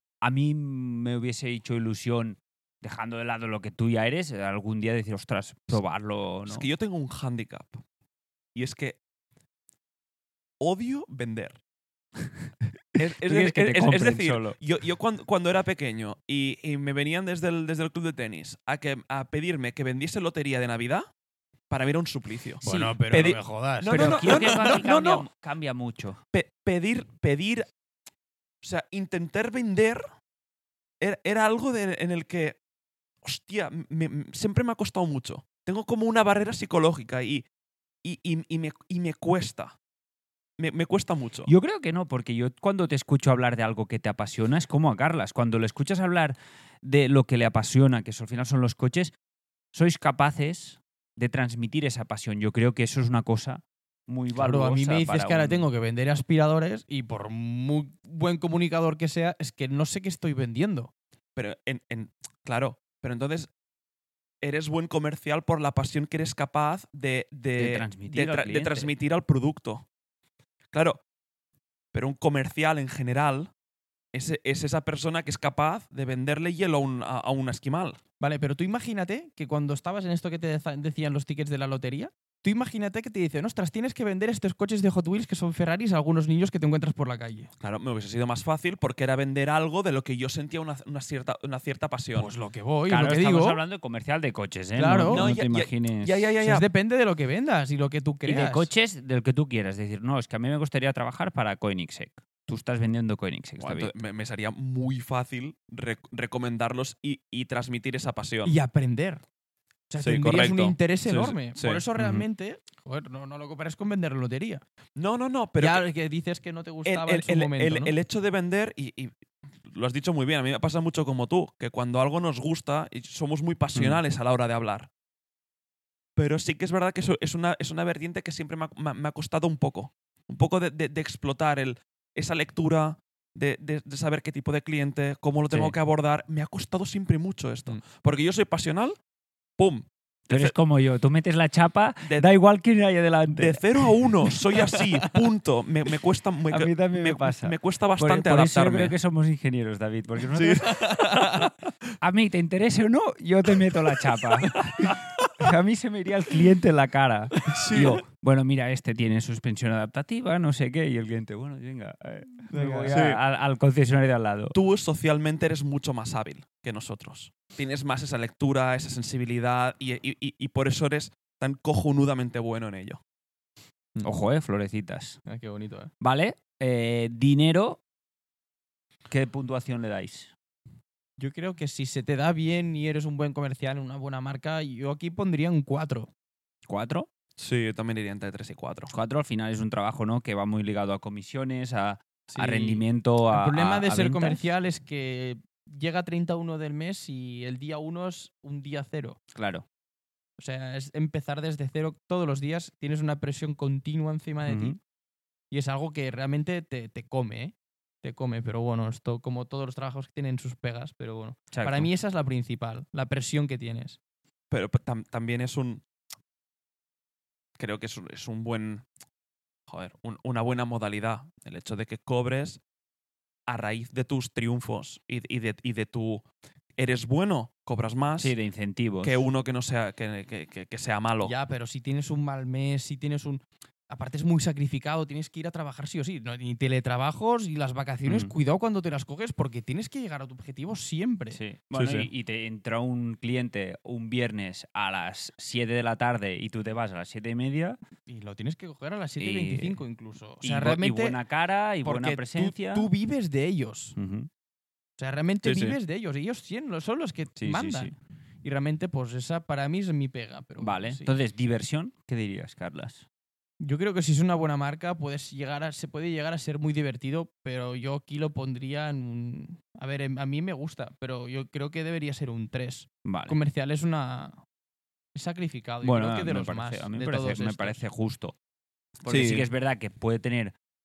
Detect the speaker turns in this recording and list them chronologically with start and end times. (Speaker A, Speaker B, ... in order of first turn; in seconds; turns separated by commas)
Speaker A: 0.2-6.7, Speaker B: 6.5-7.8, Speaker B: 8.6-9.0, Speaker B: 10.6-11.6, Speaker B: 13.0-21.1, Speaker A: 13.2-14.6, Speaker B: 21.7-25.3, Speaker C: 22.6-24.8, Speaker A: 22.6-23.4, Speaker A: 23.9-26.2, Speaker B: 26.3-27.7, Speaker B: 28.6-30.0, Speaker B: 31.0-32.6, Speaker B: 33.2-37.5, Speaker B: 38.0-39.8, Speaker B: 40.6-41.5, Speaker A: 41.5-49.1, Speaker A: 49.7-55.7, Speaker C: 54.4-60.9, Speaker B: 61.4-63.5, Speaker B: 64.4-69.8, Speaker A: 67.6-68.9, Speaker B: 70.7-71.0, Speaker B: 71.9-73.5, Speaker B: 74.1-78.0, Speaker C: 78.2-87.5, Speaker B: 87.6-92.3, Speaker C: 92.2-93.6, Speaker A: 92.9-96.3, Speaker C: 94.8-95.4, Speaker B: 95.1-96.7, Speaker C: 96.4-98.7, Speaker A: 98.2-103.9, Speaker B: 103.6-108.6, Speaker C: 108.5-109.2, Speaker C: 109.9-114.6, Speaker B: 110.0-111.8, Speaker A: 112.0-112.2, Speaker B: 115.0-115.9, Speaker C: 115.6-117.9, Speaker B: 116.9-124.9, Speaker B: 126.2-139.0, Speaker A: 135.5-135.8, Speaker B: 139.6-140.5, Speaker A: 140.3-144.8, Speaker B: 142.0-142.3, Speaker B: 143.3-148.9, Speaker A: 146.5-151.4, Speaker B: 150.3-151.5, Speaker A: 152.0-164.6, Speaker B: 157.5-158.0, Speaker C: 157.5-157.9, Speaker C: 162.5-163.0, Speaker B: 162.9-163.2, Speaker B: 164.5-173.0, Speaker A: 174.0-175.2, Speaker C: 175.3-175.9, Speaker A: 176.0-177.8, Speaker A: 179.1-180.3, Speaker C: 181.2-186.1, Speaker A: 186.7-187.1, Speaker B: 187.4-188.9, Speaker A: 188.9-194.4, Speaker C: 192.3-199.2, Speaker A: 199.3-199.7, Speaker C: 200.4-204.8, Speaker A: 204.5-204.8, Speaker C: 205.5-214.0, Speaker A: 211.5-211.9, Speaker B: 214.5-215.8, Speaker B: 217.6-218.8, Speaker B: 219.7-222.6, Speaker B: 223.5-226.2, Speaker B: 226.8-228.3, Speaker A: 228.2-229.2, Speaker B: 229.0-231.3, Speaker C: 231.2-241.4, Speaker A: 238.1-238.3, Speaker A: 241.3-247.8, Speaker B: 241.7-242.1, Speaker C: 248.1-251.2, Speaker A: 249.2-249.8, Speaker A: 250.4-252.9, Speaker C: 251.8-254.0, Speaker A: 254.0-254.3, Speaker C: 255.0-261.1, Speaker B: 255.4-255.8, Speaker A: 257.4-257.9, Speaker A: 260.6-263.1, Speaker C: 263.6-274.4, Speaker A: 273.1-273.4, Speaker C: 275.1-277.8, Speaker A: 275.8-278.4, Speaker A: 279.1-280.5, Speaker B: 279.1-279.5